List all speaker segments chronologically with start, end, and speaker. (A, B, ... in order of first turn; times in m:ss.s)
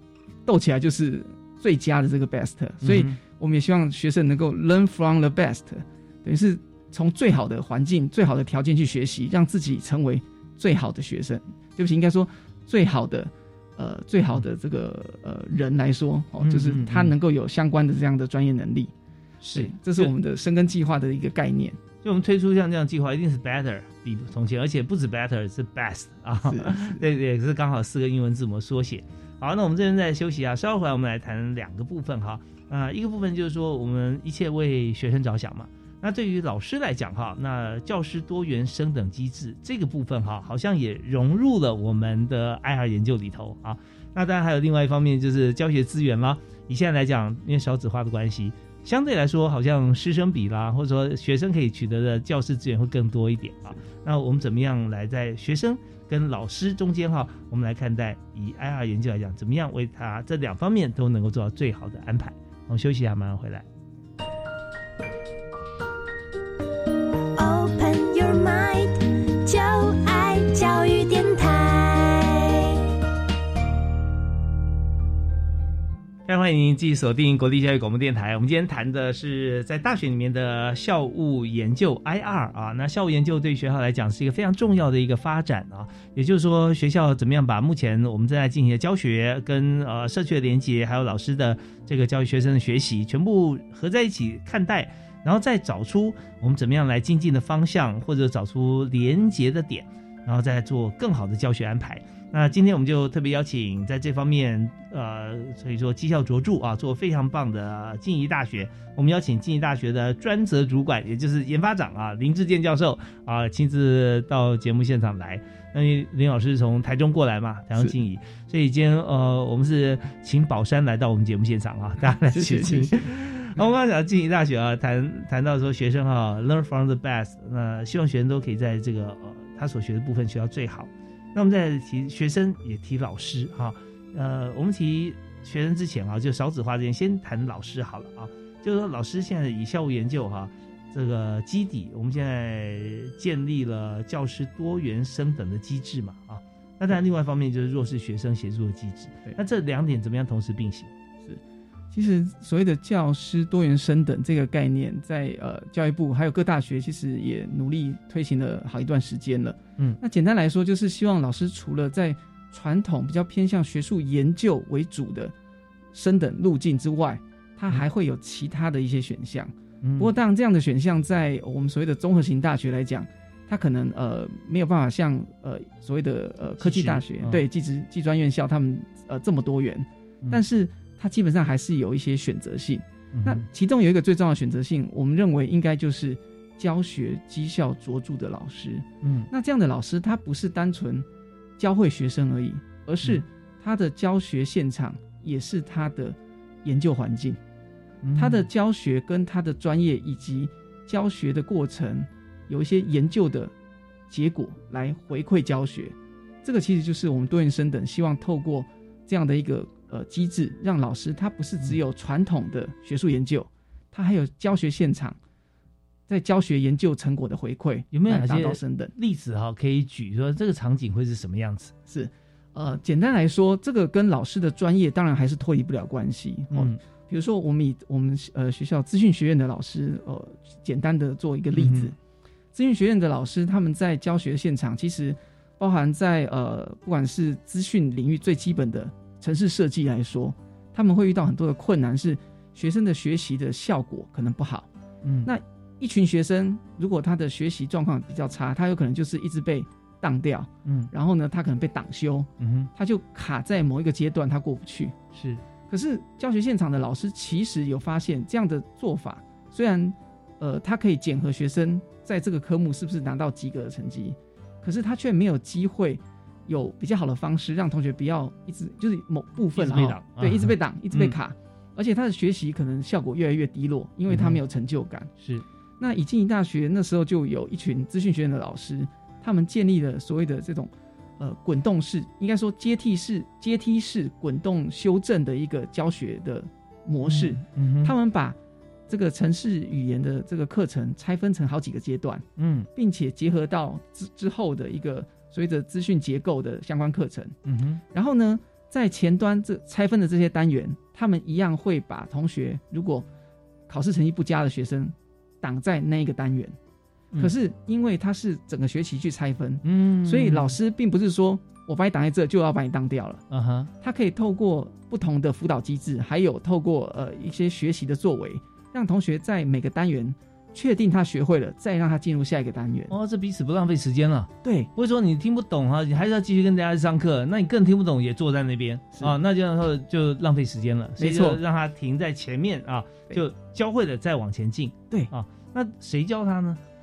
0:00.4-0:18.9 A
0:02.8-0:03.2 B
0:16.4-0:17.1 B
0:19.4-0:20.1 B
0:19.5-0:21.8 A
0:22.0-1:03.6 B
0:26.4-0:27.0 A
1:07.4-1:12.8 C
1:16.2-2:30.9 B
2:02.3-2:03.0 A
2:31.9-2:45.3 A
2:45.9-3:11.0 A
2:49.8-2:50.1 B
2:56.6-2:57.4 B
3:03.1-3:03.4 B
3:09.0-3:09.3 B
3:11.6-3:17.4 A
3:18.0-3:18.4 B
3:18.2-3:23.5 A
3:24.1-3:35.2 A
3:36.1-3:38.9 A
3:37.9-3:41.7 B
3:41.9-3:51.9 A
3:46.5-3:46.8 B
3:51.5-3:51.9 B
3:52.5-4:04.7 A
4:05.0-4:05.3 B
4:05.2-4:14.9 A
4:10.6-4:10.9 B
4:12.4-4:12.7 B
4:15.1-4:15.4 B
4:15.7-4:35.1 A
4:29.5-4:31.2 B
4:34.1-4:34.4 B
4:35.2-4:35.4 B
4:35.8-4:48.4 A
4:47.1-4:47.9 B
4:48.9-4:57.3 A
4:52.4-4:52.7 B
4:57.4-4:57.8 B
4:57.9-5:03.0 A
5:03.7-5:06.6 A
5:07.2-5:13.2 A
5:09.6-5:10.5 B
5:13.3-5:13.7 B
5:13.8-5:22.9 A
5:22.9-5:36.6 B
5:24.4-5:24.7 A
5:31.0-5:31.4 A